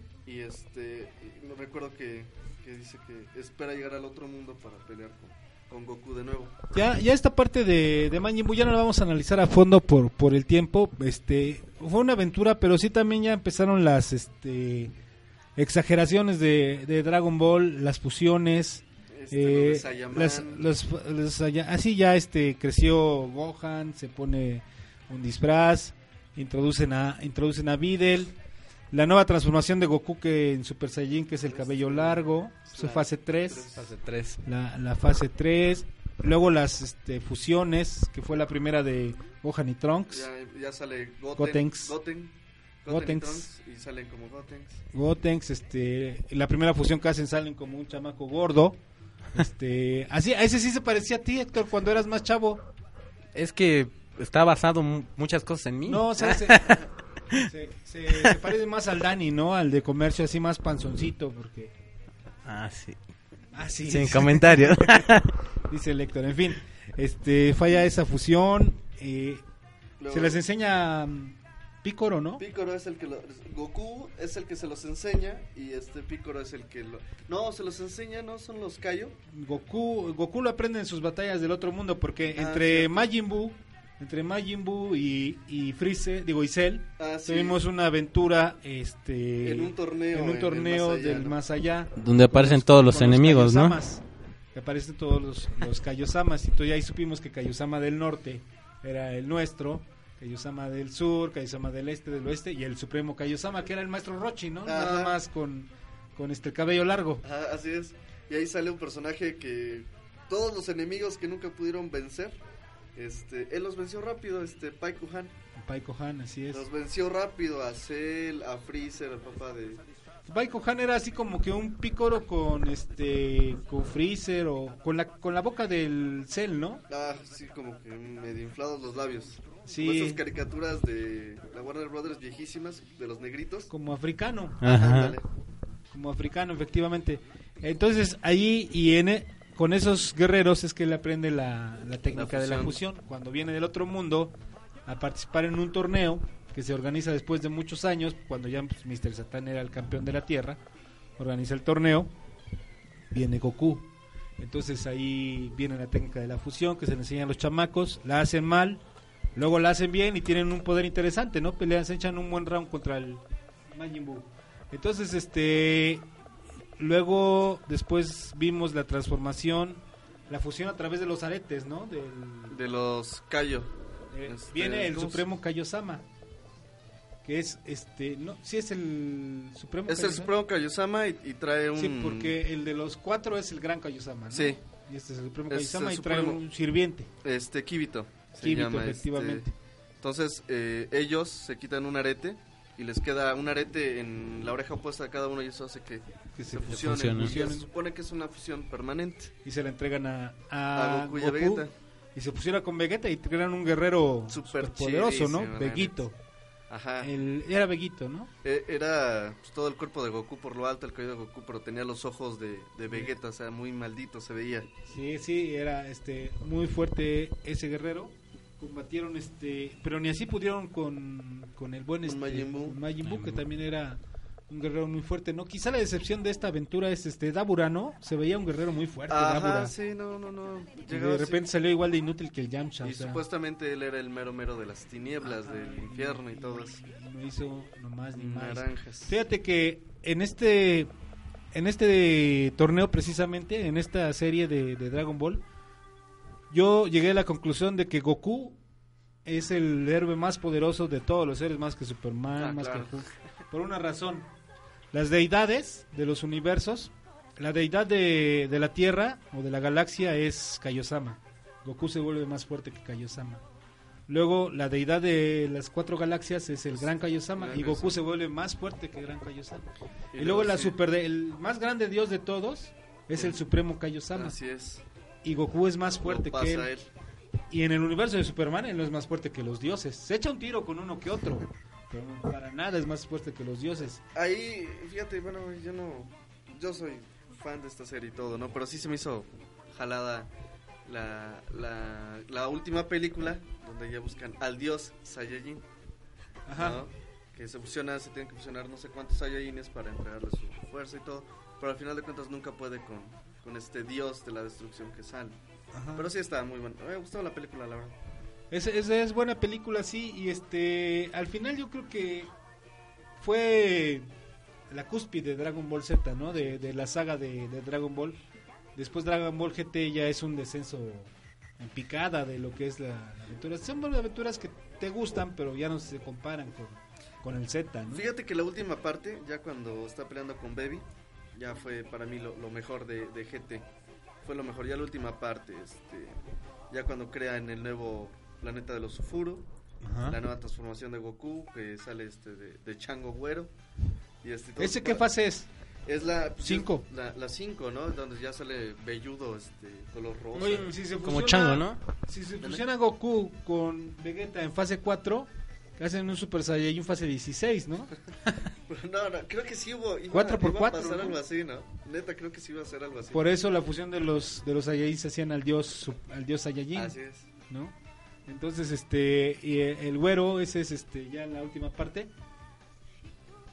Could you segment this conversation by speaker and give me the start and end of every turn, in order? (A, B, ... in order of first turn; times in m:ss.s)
0:00.2-0:06.6 A
0:06.7-0:14.9 B
0:15.6-0:28.3 B
0:19.1-0:20.7 A
0:28.9-0:33.7 B
0:31.4-0:33.9 A
0:33.8-0:34.4 C
0:34.4-0:40.3 B
0:40.1-0:44.8 A
0:41.4-0:41.9 B
0:42.9-0:43.5 B
0:44.9-0:48.8 B
0:49.3-0:52.6 B
0:53.3-0:56.8 C
0:55.8-0:56.8 B
0:57.4-1:01.7 B
1:02.4-1:03.0 C
1:03.5-1:05.1 B
1:03.9-1:05.3 C
1:05.7-1:09.4 B
1:10.0-1:10.4 A
1:10.1-1:12.4 B
1:12.4-1:19.2 A
1:19.3-1:34.0 B
1:22.3-1:23.1 A
1:27.0-1:27.6 A
1:29.4-1:31.4 A
1:32.0-1:33.8 C
1:34.5-1:47.2 B
1:44.6-1:45.2 A
1:47.2-1:52.4 A
1:52.9-1:55.3 A
1:55.6-1:56.6 B
1:56.5-1:59.8 A
2:00.3-2:06.8 B
2:06.9-2:13.7 A
2:09.6-2:10.2 B
2:13.7-2:14.8 B
2:14.6-2:15.2 C
2:14.6-2:15.2 A
2:15.9-2:24.3 B
2:22.1-2:22.8 A
2:24.8-2:30.6 B
2:31.2-2:32.1 B
2:33.1-2:33.9 B
2:34.4-2:38.8 B
2:39.4-2:46.1 B
2:46.8-2:52.6 B
2:52.5-2:53.7 A
2:54.1-2:56.0 B
2:54.2-2:55.2 A
2:57.2-3:00.3 B
2:59.9-3:02.4 A
3:01.8-3:07.1 B
3:04.3-3:04.6 A
3:05.5-3:06.4 A
3:07.2-3:09.4 A
3:08.4-3:09.5 B
3:10.0-3:19.3 A
3:16.4-3:17.6 B
3:16.7-3:17.4 C
3:19.4-3:26.2 B
3:20.7-3:21.7 A
3:24.3-3:26.0 A
3:26.7-3:27.1 A
3:27.0-3:28.3 B
3:28.4-3:34.7 A
3:34.9-3:49.7 B
3:42.0-3:42.8 A
3:43.0-3:43.4 C
3:49.1-3:51.4 A
3:50.8-3:53.2 B
3:52.8-3:56.8 A
3:55.2-4:00.9 B
3:58.1-3:59.2 A
4:01.5-4:05.4 B
4:06.5-4:08.6 B
4:09.2-4:14.3 B
4:12.3-4:13.1 A
4:14.9-4:23.4 B
4:24.1-4:29.6 B
4:26.7-4:28.0 A
4:30.1-4:30.8 A
4:30.2-4:34.4 B
4:33.1-4:33.4 A
4:34.1-4:34.8 A
4:35.2-4:36.7 B
4:36.0-4:36.9 A
4:37.5-4:44.0 B
4:44.1-4:50.3 A
4:50.8-4:55.6 A
4:56.5-4:56.8 B
4:56.5-5:05.4 A
5:05.7-5:06.1 B
5:05.9-5:08.0 A
5:08.5-5:12.3 B
5:13.2-5:14.1 B
5:14.7-5:18.2 B
5:18.8-5:28.1 B
5:27.9-5:33.7 A
5:34.2-5:36.2 A
5:36.7-5:39.4 A
5:39.8-5:40.2 B
5:40.0-5:43.5 A
5:44.2-5:45.1 A
5:44.6-5:45.5 B
5:45.8-5:50.7 A
5:46.4-5:46.8 B
5:50.3-5:58.4 B
5:50.6-5:51.8 C
5:58.7-6:03.4 A
6:00.1-6:01.2 B
6:03.1-6:07.0 B
6:06.7-6:07.3 A
6:07.5-6:07.7 B
6:08.3-6:12.1 B